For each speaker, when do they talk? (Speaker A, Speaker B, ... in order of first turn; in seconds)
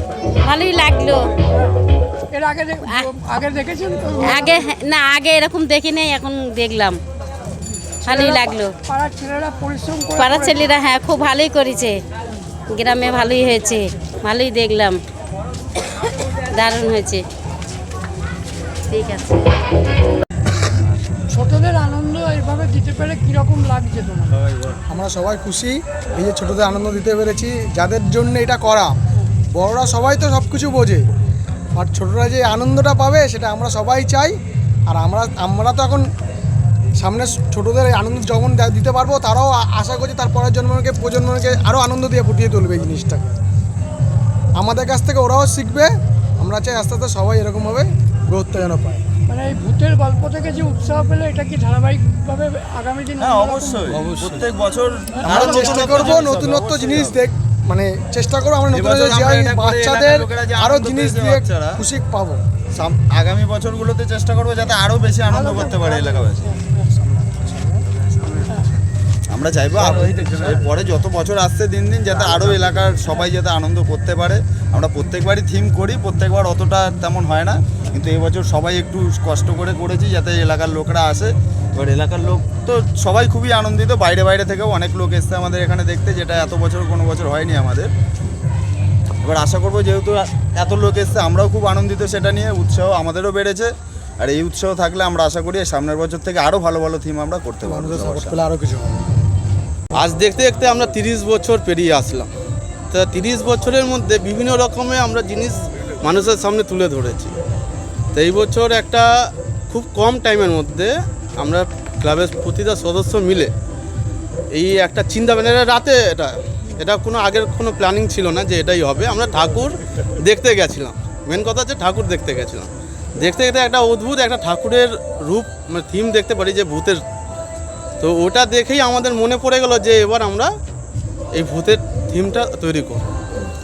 Speaker A: 0.4-1.3, 2.8-3.1, 4.2-7.0, 8.0-8.7, 10.1-11.9, 12.7-15.0, 16.5-17.2, 18.9-19.4
Speaker B: 2.3-4.6, 8.1-10.6, 21.3-24.5, 49.3-54.3, 55.2-56.2, 65.3-67.8
Speaker C: 24.9-28.9, 29.5-31.0, 31.7-34.3, 34.9-36.0, 37.0-43.4, 44.6-49.0, 55.2-62.4, 97.6-99.1
Speaker D: 53.2-57.2, 58.7-61.8, 62.8-66.5, 69.3-87.9, 89.2-98.4
Speaker E: 100.0-102.3, 102.9-107.3, 108.1-109.0, 109.7-113.5, 114.5-122.7, 123.2-127.0, 128.0-130.5, 131.3-133.1